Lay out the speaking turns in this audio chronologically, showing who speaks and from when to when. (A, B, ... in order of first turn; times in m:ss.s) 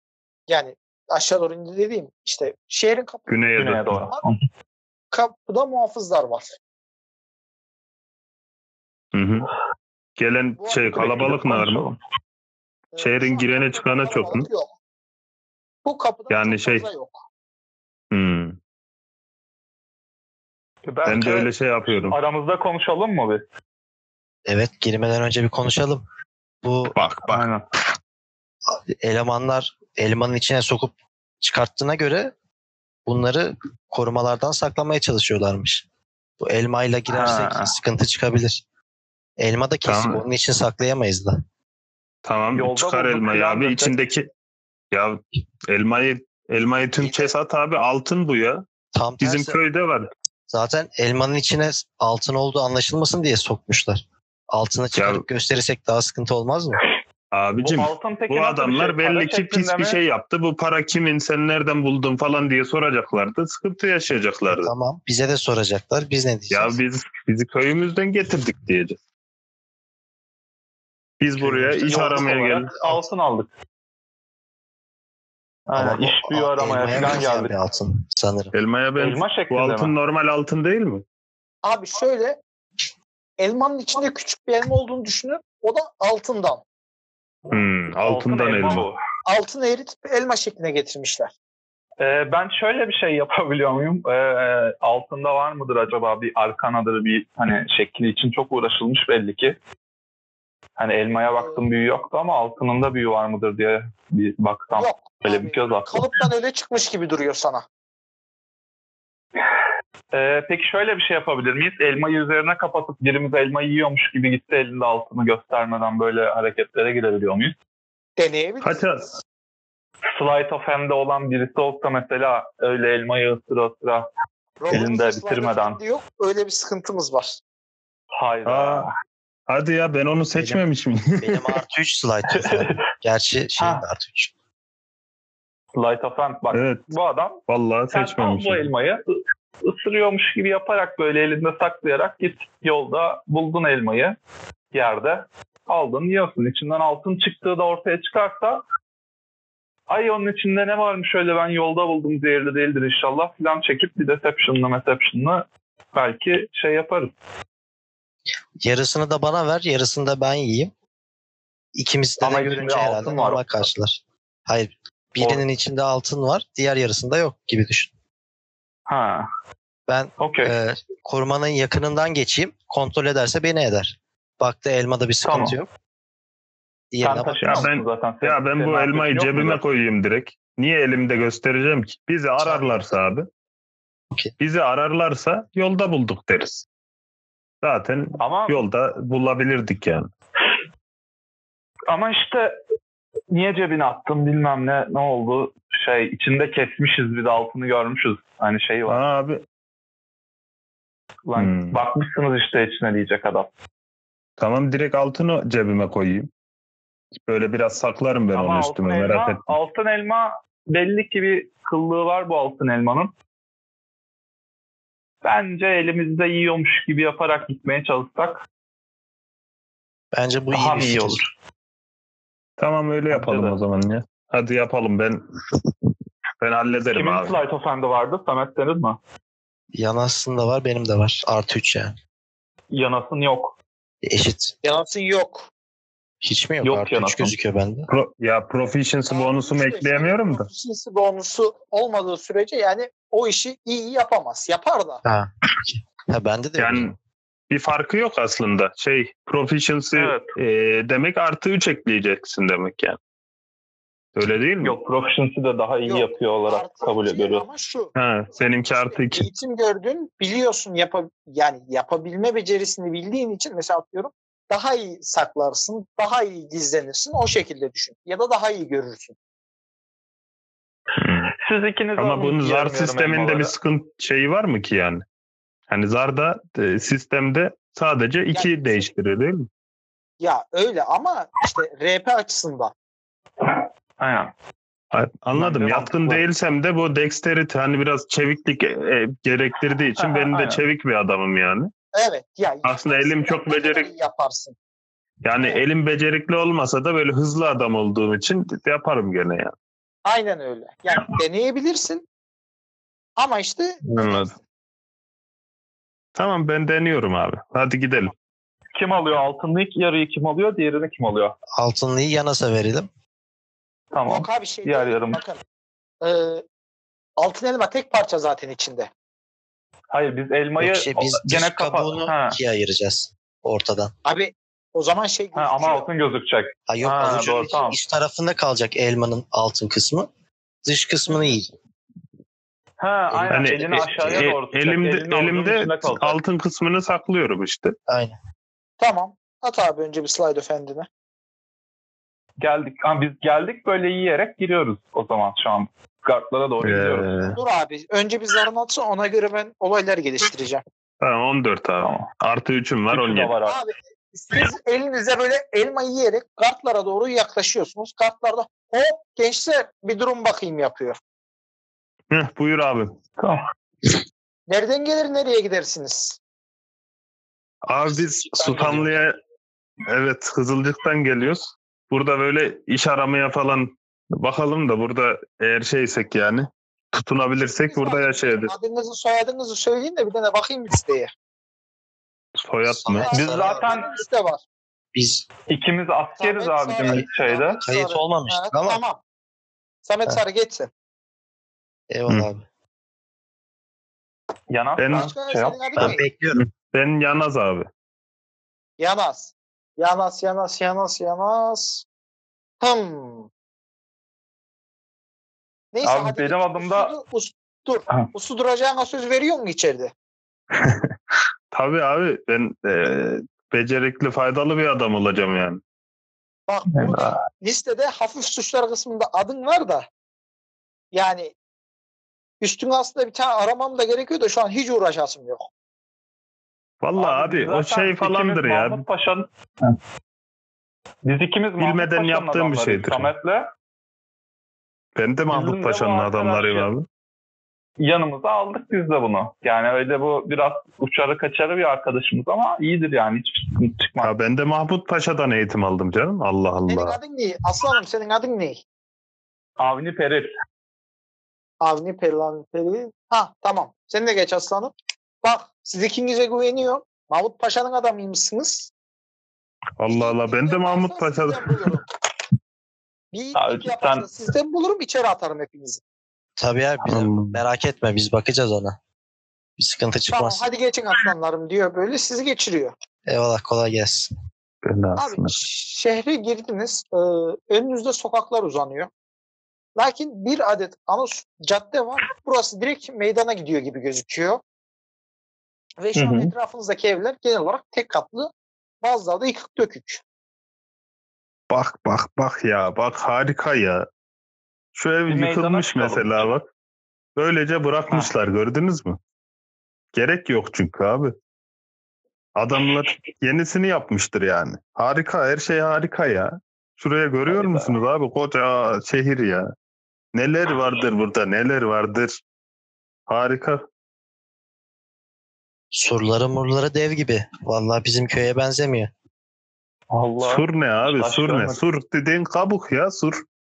0:00.5-0:03.4 A
0:03.3-0:04.0 B
0:03.6-0:04.4 C
0:03.9-0:04.2 A
0:05.1-0:06.6 A
0:09.1-0:09.5 B
0:10.2-0:11.9 B
0:10.6-0:11.2 A
0:10.9-0:12.0 C
0:12.9-0:14.7 A
0:13.0-0:14.5 B
0:15.8-0:17.2 A
0:16.3-0:16.9 B
0:18.1-0:18.6 B
0:20.9-0:23.4 C
0:21.1-0:22.2 B
0:24.5-0:26.0 D
0:26.6-0:27.0 D
0:27.0-0:27.5 B
0:27.3-0:27.6 C
0:28.7-0:32.3 D
0:33.1-0:35.8 D
0:36.4-0:38.6 D
0:37.1-0:37.7 C
0:39.4-0:41.4 D
0:39.8-0:40.2 B
0:42.2-0:44.3 B
0:42.6-0:44.0 C
0:44.9-0:48.6 B
0:47.0-0:47.3 D
0:48.9-0:49.6 D
0:49.2-0:50.1 B
0:50.5-0:56.8 D
0:55.0-0:55.2 B
0:57.3-1:04.7 B
0:57.6-1:00.0 C
1:04.5-1:06.8 D
1:06.5-1:09.0 B
1:11.2-1:12.7 B
1:11.4-1:12.2 D
1:11.9-1:13.5 C
1:15.7-1:17.5 C
1:15.8-1:18.5 D
1:18.5-1:21.0 B
1:19.0-1:19.9 C
1:21.6-1:22.4 A
1:23.4-1:26.6 A
1:27.5-1:28.9 B
1:28.0-1:29.0 C
1:29.3-1:31.3 A
1:32.0-1:39.6 C
1:40.8-1:46.1 C
1:41.4-1:41.6 A
1:44.8-1:47.6 A
1:50.1-1:57.6 C
1:58.2-1:58.9 A
1:58.6-1:59.1 B
2:00.1-2:04.1 C
2:04.6-2:07.4 A
2:04.7-2:05.8 C
2:08.1-2:08.9 C
2:08.5-2:08.9 B
2:09.5-2:11.6 B
2:10.4-2:10.6 D
2:11.2-2:14.3 D
2:12.3-2:12.8 C
2:13.6-2:13.8 C
2:15.7-2:17.4 C
2:16.5-2:16.9 B
2:17.5-2:18.7 B
2:17.9-2:24.2 C
2:24.7-2:28.6 C
2:29.9-2:37.2 C
2:38.6-2:40.7 D
2:41.7-2:47.9 D
2:42.2-2:43.5 C
2:45.2-2:45.4 C
2:48.9-2:49.3 C
2:49.9-2:55.7 D
2:50.2-2:50.5 C
2:55.2-2:55.6 C
2:56.9-2:57.7 D
2:57.0-2:59.6 C
2:57.4-3:03.3 B
3:02.4-3:02.9 D
3:04.4-3:06.7 B
3:07.6-3:10.1 B
3:08.2-3:08.6 C
3:11.9-3:12.6 C
3:13.3-3:19.0 C
3:18.9-3:19.4 B
3:21.3-3:23.5 C
3:21.4-3:21.8 B
3:24.4-3:26.3 B
3:27.2-3:29.5 B
3:28.3-3:33.1 C
3:35.2-3:38.4 C
3:40.1-3:41.2 D
3:40.5-3:41.3 C
3:42.6-3:45.2 B
3:43.1-3:43.6 C
3:46.4-3:47.4 B
3:46.9-3:49.0 C
3:49.7-3:52.0 D
3:52.7-3:53.6 C
3:54.0-3:54.6 D
3:54.6-3:55.5 A
3:56.2-3:57.9 D
3:56.6-3:57.3 C
3:57.9-4:00.5 B
3:59.1-4:05.0 A
4:05.0-4:07.0 D
4:06.6-4:06.9 B
4:07.5-4:13.0 B
4:10.0-4:10.3 C
4:14.2-4:14.8 B
4:14.6-4:17.4 C
4:15.9-4:29.2 A
4:18.0-4:19.3 B
4:31.0-4:31.3 B
4:31.4-4:33.5 C
4:32.0-4:35.0 B
4:35.7-4:39.5 B
4:38.3-4:38.9 A
4:40.2-4:42.7 A
4:43.5-4:44.3 C
4:44.9-4:51.7 B
4:45.3-4:46.2 C
4:50.0-4:50.6 C
4:51.9-4:54.6 A
4:52.6-4:53.9 B
4:55.2-4:59.5 B
5:00.0-5:02.0 A
5:03.2-5:04.4 A
5:03.9-5:04.3 B
5:06.2-5:08.1 B
5:08.8-5:11.4 C
5:11.6-5:12.9 D
5:13.9-5:15.2 C
5:14.1-5:15.4 A
5:16.0-5:16.4 A
5:17.2-5:18.9 A
5:19.9-5:22.4 C
5:20.6-5:23.9 D
5:24.0-5:25.9 A
5:25.4-5:27.8 C
5:26.7-5:30.1 D
5:30.6-5:31.5 D
5:32.8-5:36.2 C
5:33.1-5:33.8 D
5:33.3-5:37.7 B
5:37.9-5:38.2 D
5:38.8-5:40.9 A
5:42.4-5:47.1 C
5:46.6-5:47.4 B
5:47.4-5:50.6 A
5:51.0-5:53.3 B
5:51.8-5:52.1 C
5:52.9-5:53.6 C
5:53.5-6:01.0 A
6:02.1-6:03.0 B
6:04.5-6:06.2 A
6:07.7-6:09.2 B
6:09.9-6:18.5 B
6:17.6-6:21.1 A
6:22.4-6:23.1 B
6:22.6-6:23.7 D
6:23.0-6:24.4 A
6:23.1-6:23.9 C
6:24.9-6:25.2 D
6:25.5-6:27.6 C
6:26.2-6:29.0 A
6:27.6-6:28.8 D
6:29.8-6:30.7 A
6:31.9-6:32.5 D
6:34.5-6:35.6 C
6:34.8-6:35.1 B
6:34.9-6:36.0 A
6:35.8-6:36.4 D
6:36.4-6:37.7 B
6:38.8-6:41.8 A
6:42.6-6:43.3 A
6:45.7-6:49.9 A
6:45.8-6:46.9 C
6:50.5-6:50.9 B
6:51.5-6:55.6 B
6:56.5-6:59.9 A
6:56.7-6:57.2 C
7:00.9-7:01.3 A
7:02.4-7:05.5 A
7:06.8-7:08.8 B
7:07.0-7:09.8 C
7:11.0-7:13.5 C
7:11.6-7:13.1 B
7:15.0-7:16.9 B
7:15.3-7:16.7 C
7:17.8-7:24.1 C
7:24.0-7:27.0 B
7:26.7-7:28.6 A
7:29.6-7:30.3 C
7:31.6-7:38.7 A
7:39.8-7:41.8 B
7:39.9-7:41.9 A
7:43.1-7:45.8 A
7:43.4-7:44.1 C
7:46.4-7:48.8 D
7:46.8-7:47.4 B
7:49.6-7:50.5 D
7:50.1-7:52.7 A
7:53.1-7:54.1 D
7:54.6-7:55.4 B
7:55.0-7:58.9 A
7:59.8-8:04.4 A
8:05.8-8:08.3 A
8:06.0-8:06.3 C
8:08.8-8:10.0 A
8:11.5-8:13.9 B
8:14.7-8:16.4 B
8:15.1-8:16.3 C
8:17.2-8:19.0 B
8:19.9-8:21.1 B
8:22.4-8:29.5 B
8:27.3-8:27.8 C
8:30.2-8:32.1 B
8:33.1-8:33.6 B
8:35.7-8:38.9 D
8:39.9-8:41.6 C
8:40.2-8:43.2 B